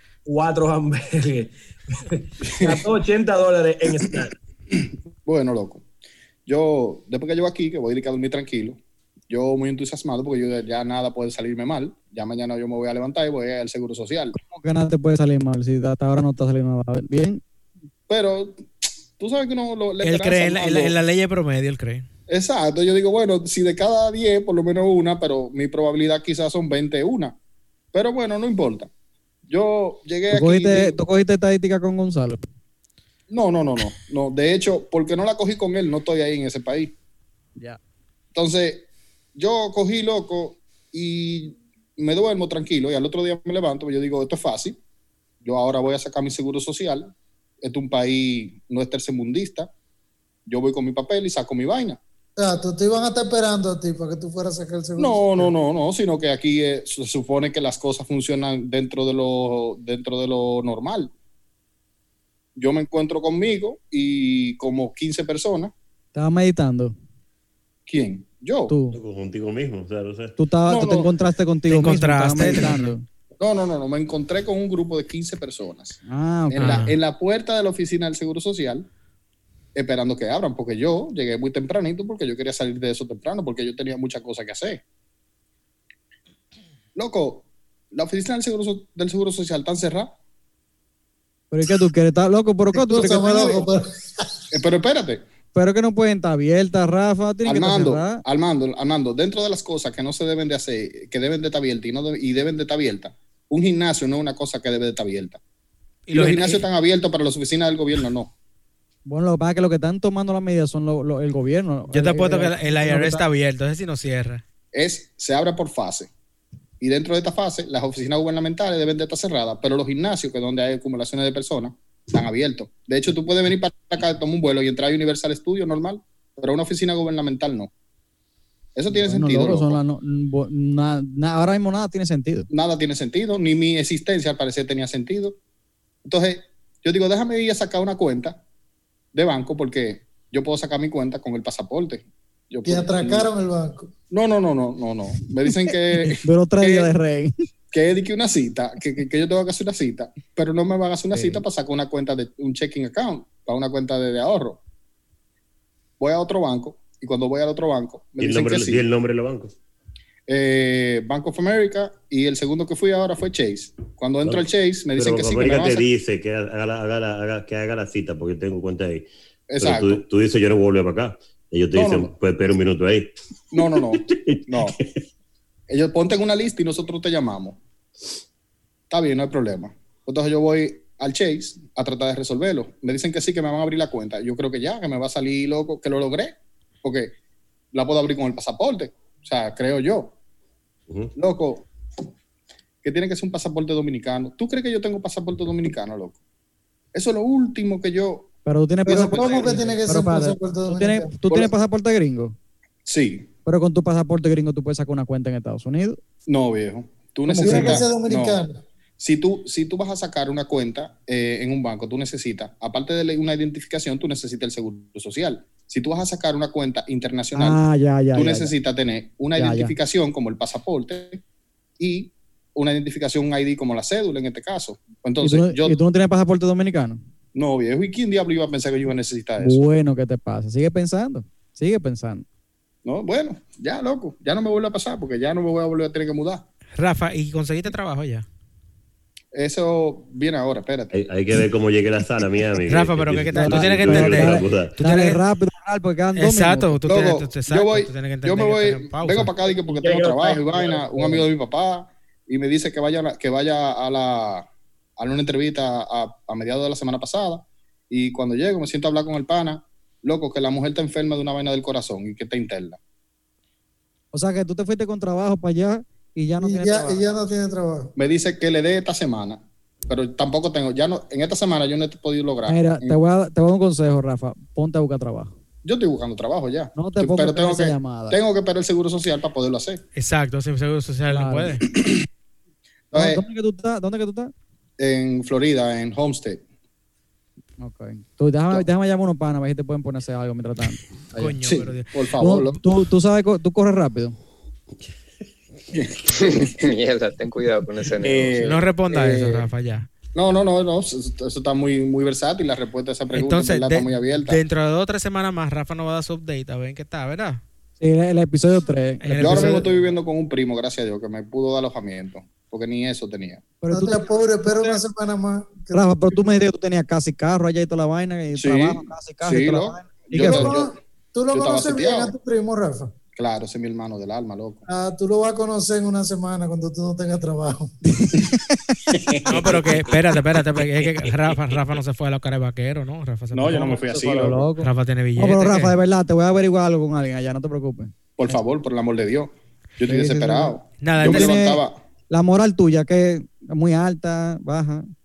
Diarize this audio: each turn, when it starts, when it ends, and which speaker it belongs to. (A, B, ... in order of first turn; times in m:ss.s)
0:00.2-0:04.4 A
0:02.4-0:02.8 B
0:04.7-0:05.8 B
0:06.4-0:08.8 B
0:09.3-0:14.4 B
0:14.3-0:17.4 C
0:18.1-0:18.7 B
0:19.2-0:20.9 B
0:20.0-0:22.0 D
0:22.3-0:27.4 B
0:27.9-0:28.9 B
0:29.5-0:31.0 B
0:30.3-0:32.4 C
0:33.3-0:36.9 B
0:38.3-0:44.8 B
0:45.4-0:49.7 B
0:50.5-0:52.0 B
0:52.4-0:55.5 E
0:55.0-1:01.1 B
1:02.6-1:05.7 B
1:06.1-1:06.9 C
1:07.9-1:08.7 B
1:08.7-1:09.0 C
1:08.9-1:10.4 F
1:10.4-1:13.0 C
1:10.6-1:11.1 B
1:11.7-1:12.9 D
1:13.4-1:18.9 B
1:16.1-1:16.9 C
1:16.6-1:16.9 D
1:19.7-1:24.8 B
1:26.9-1:30.1 B
1:31.5-1:33.6 C
1:32.7-1:34.0 E
1:34.5-1:35.2 B
1:35.5-1:38.2 C
1:37.4-1:45.4 B
1:46.1-1:46.6 D
1:46.1-1:48.3 B
1:49.0-1:53.2 C
1:51.9-1:54.4 D
1:54.7-1:56.1 B
1:56.8-2:07.7 B
2:08.8-2:09.8 B
2:08.9-2:12.5 C
2:12.5-2:15.4 B
2:16.0-2:18.4 B
2:19.1-2:23.3 B
2:22.6-2:23.9 E
2:24.1-2:26.9 B
2:26.0-2:27.3 C
2:27.7-2:34.6 B
2:31.1-2:31.4 C
2:36.0-2:38.8 B
2:38.2-2:39.5 F
2:40.3-2:45.9 B
2:44.2-2:49.1 F
2:49.5-2:50.0 B
2:49.6-2:53.1 F
2:51.7-2:52.1 B
2:53.5-2:54.8 B
2:54.1-2:55.0 F
2:55.7-2:57.6 B
2:58.9-3:07.1 B
3:07.7-3:10.1 B
3:11.2-3:11.7 B
3:12.8-3:16.2 B
3:16.9-3:18.3 B
3:18.4-3:22.3 C
3:18.8-3:21.3 E
3:18.9-3:19.6 B
3:22.8-3:23.3 B
3:23.4-3:26.0 C
3:26.3-3:28.4 B
3:27.3-3:27.9 C
3:27.4-3:28.6 E
3:29.0-3:37.6 B
3:37.4-3:38.5 C
3:38.1-3:41.2 B
3:39.3-3:39.7 C
3:41.8-3:45.8 B
3:45.2-3:47.0 C
3:47.3-3:49.6 B
3:49.4-3:52.2 C
3:52.8-3:56.4 B
3:56.8-3:58.2 D
3:59.3-4:00.9 B
4:00.9-4:04.8 F
4:02.7-4:05.2 D
4:03.3-4:06.9 C
4:06.2-4:09.3 D
4:06.8-4:14.5 B
4:09.6-4:11.2 A
4:15.0-4:22.8 B
4:24.1-4:27.0 C
4:26.4-4:27.9 E
4:28.0-4:33.0 B
4:32.5-4:35.3 C
4:35.6-4:39.8 B
4:36.8-4:38.2 C
4:40.0-4:41.6 D
4:41.1-4:41.6 C
4:42.9-4:43.2 B
4:42.9-4:44.3 C
4:44.8-4:46.4 B
4:47.6-4:51.3 C
4:51.2-4:51.9 D
4:51.4-4:52.6 B
4:52.2-4:54.2 C
4:56.1-4:58.4 G
4:58.0-4:59.4 B
4:58.4-4:59.9 D
5:00.1-5:04.4 B
5:03.1-5:07.4 D
5:07.8-5:09.7 C
5:09.0-5:09.6 D
5:09.1-5:13.4 B
5:13.6-5:14.8 C
5:13.7-5:16.4 E
5:15.7-5:20.5 C
5:18.3-5:20.7 B
5:20.1-5:22.9 E
5:21.3-5:22.1 B
5:23.2-5:24.6 B
5:24.7-5:27.8 E
5:28.0-5:28.6 C
5:28.9-5:29.9 B
5:29.2-5:33.8 D
5:33.3-5:34.5 B
5:33.7-5:38.4 C
5:34.6-5:35.8 D
5:38.2-5:41.8 B
5:39.8-5:44.9 C
5:40.8-5:41.4 D